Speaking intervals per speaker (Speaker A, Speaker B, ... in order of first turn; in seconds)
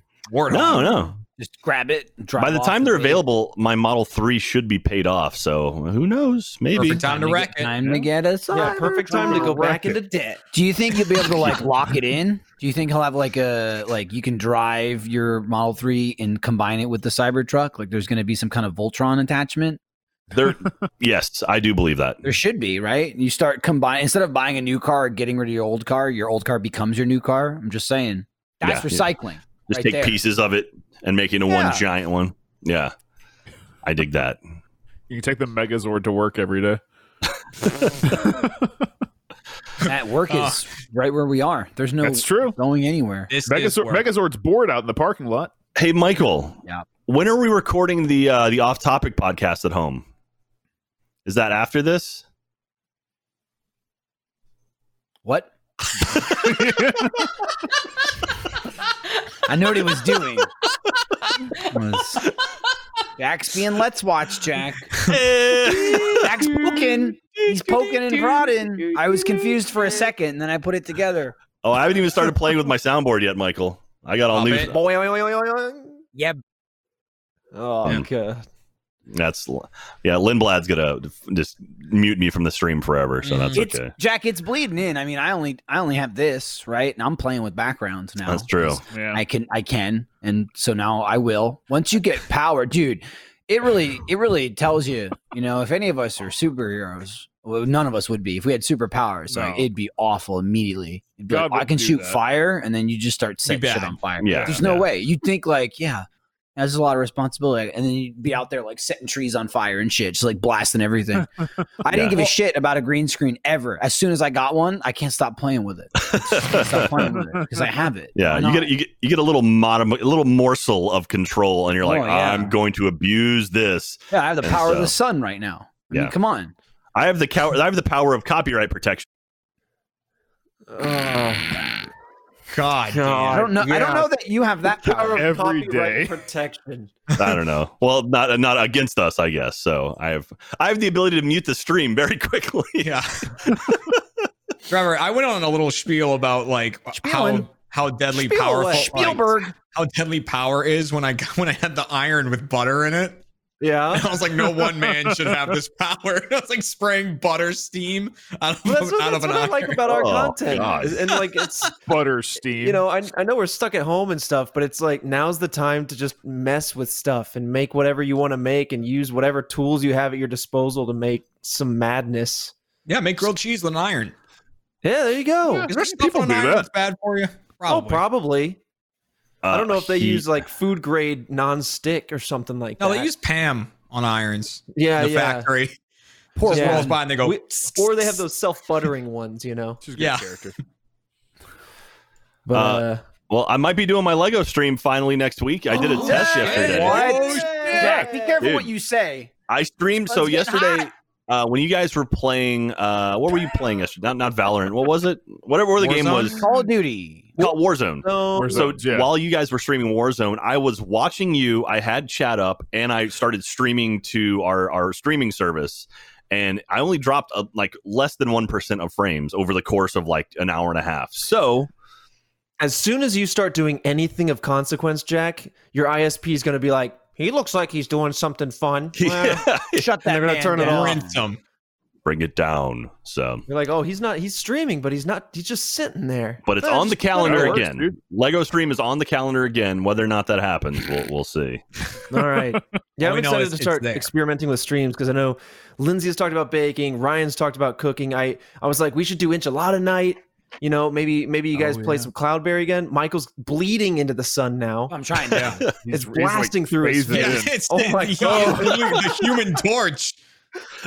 Speaker A: 0.3-1.1, 6.7-8.0, 39.8-40.6, 43.3-44.1, 65.8-66.1, 67.4-68.4, 74.3-74.7, 83.2-83.6, 103.4-104.0, 104.6-104.8, 132.5-133.5, 142.8-143.3, 144.7-153.2, 153.9-159.8, 161.1-161.7, 172.9-174.1, 175.7-178.0, 182.8-185.8, 186.3-188.2, 190.0-190.5, 195.8-198.0, 230.6-231.4, 243.0-244.1, 257.1-260.2
Speaker B: 0.5-1.1, 2.4-7.1, 20.3-22.2, 28.6-29.1, 29.7-32.9, 33.8-34.4, 45.8-50.0, 51.2-52.2, 65.0-66.2, 71.6-74.8, 79.1-83.9, 88.2-88.8, 104.2-104.7, 111.9-112.3, 116.0-117.2, 118.2-124.9, 126.9-129.1, 137.2-144.0, 159.9-161.0, 179.4-180.3, 192.5-197.1, 198.4-198.7, 199.5-206.4, 207.4-221.7, 229.0-229.8, 232.0-233.4, 236.4-241.6
Speaker C: 1.3-3.2, 7.0-19.8, 22.2-30.2, 31.5-31.8, 39.8-43.3, 55.2-55.5, 59.5-60.5, 61.6-62.2, 63.2-64.9, 66.1-71.4, 76.1-76.4, 83.5-106.0, 106.5-111.3, 111.8-118.7, 121.8-122.6, 124.1-126.5, 133.3-135.2, 147.0-147.4, 148.7-149.5, 186.4-186.9, 195.8-199.3, 200.1-200.9, 205.8-207.4, 229.7-231.2, 254.9-255.6
Speaker D: 8.5-10.1, 74.6-76.0, 77.5-78.4, 130.7-131.7, 132.9-134.1, 134.7-136.9, 148.1-149.2, 153.6-154.1, 158.6-161.7, 162.6-172.5, 174.8-175.7, 177.7-178.6, 179.5-183.1, 184.7-185.5, 186.5-189.8, 192.4-193.0, 195.8-198.4, 207.4-208.8, 222.6-229.5, 230.0-231.0, 233.5-237.7, 242.1-254.9, 255.9-259.3
Speaker E: 35.1-36.8, 38.0-38.7, 42.0-42.6, 43.5-45.5, 56.4-57.1, 88.9-89.2, 99.3-99.7, 101.3-102.2, 104.3-104.6, 135.1-136.2, 154.6-155.4, 161.8-162.8, 175.5-176.7, 189.8-190.5, 197.8-198.0, 208.3-209.1, 237.1-238.0, 251.6-252.1, 255.8-257.5, 258.2-258.8